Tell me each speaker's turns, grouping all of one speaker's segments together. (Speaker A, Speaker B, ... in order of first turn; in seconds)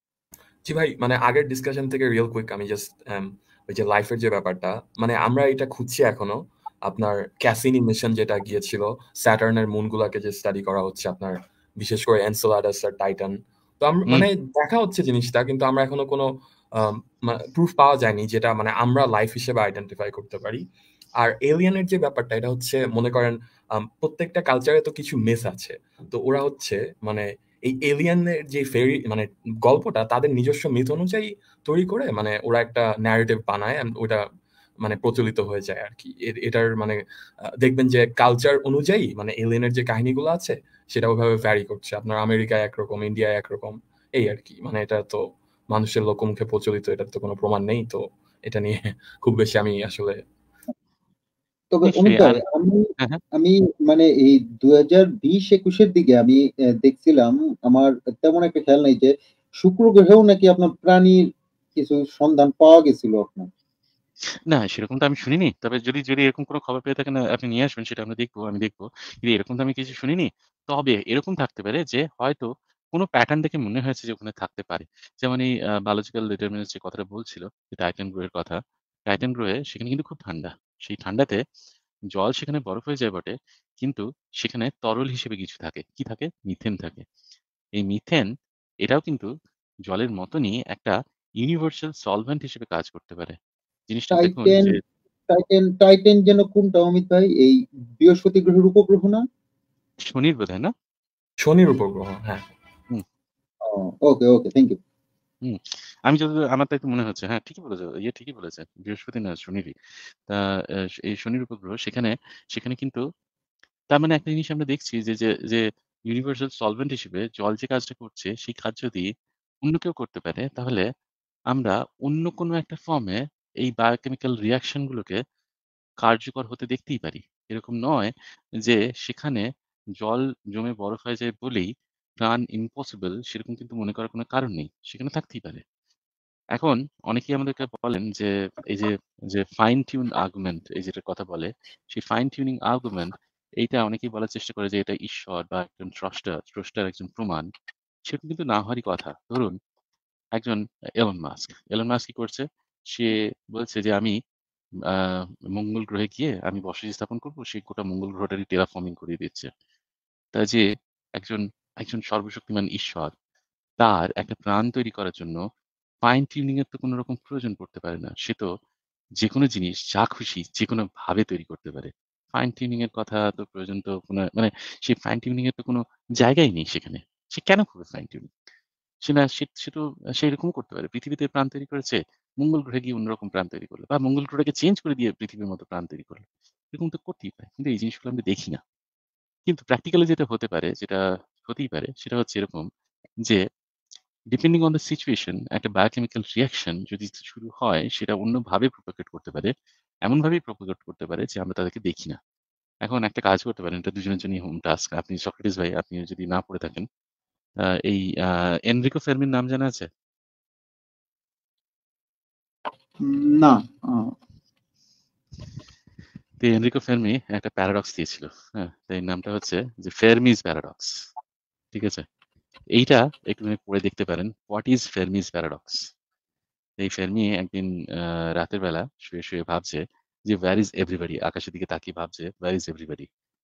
Speaker A: 0.7-20.6, 21.2-34.2, 34.8-37.0, 37.6-50.2, 101.4-102.5
Speaker B: 51.7-61.2, 61.8-63.5, 94.2-94.8, 95.3-99.2, 103.6-104.8, 213.0-214.1
Speaker C: 51.9-52.4, 64.5-78.6, 79.1-81.4, 82.1-87.0, 87.8-88.3, 88.8-89.3, 89.9-93.4, 93.9-94.8, 100.0-100.7, 105.5-109.7, 111.0-113.0, 113.9-119.1, 119.6-120.8, 121.5-125.2, 126.0-129.4, 130.0-131.7, 132.2-135.6, 136.6-147.5, 148.1-149.6, 150.4-154.2, 154.9-159.5, 160.4-160.7, 161.2-163.1, 163.8-165.4, 166.1-168.5, 169.2-178.3, 179.1-188.6, 189.5-192.7, 194.3-199.5, 200.1-202.2, 202.8-206.9, 207.8-209.9, 216.4-220.9, 221.7-222.1, 222.8-225.8, 226.8-233.1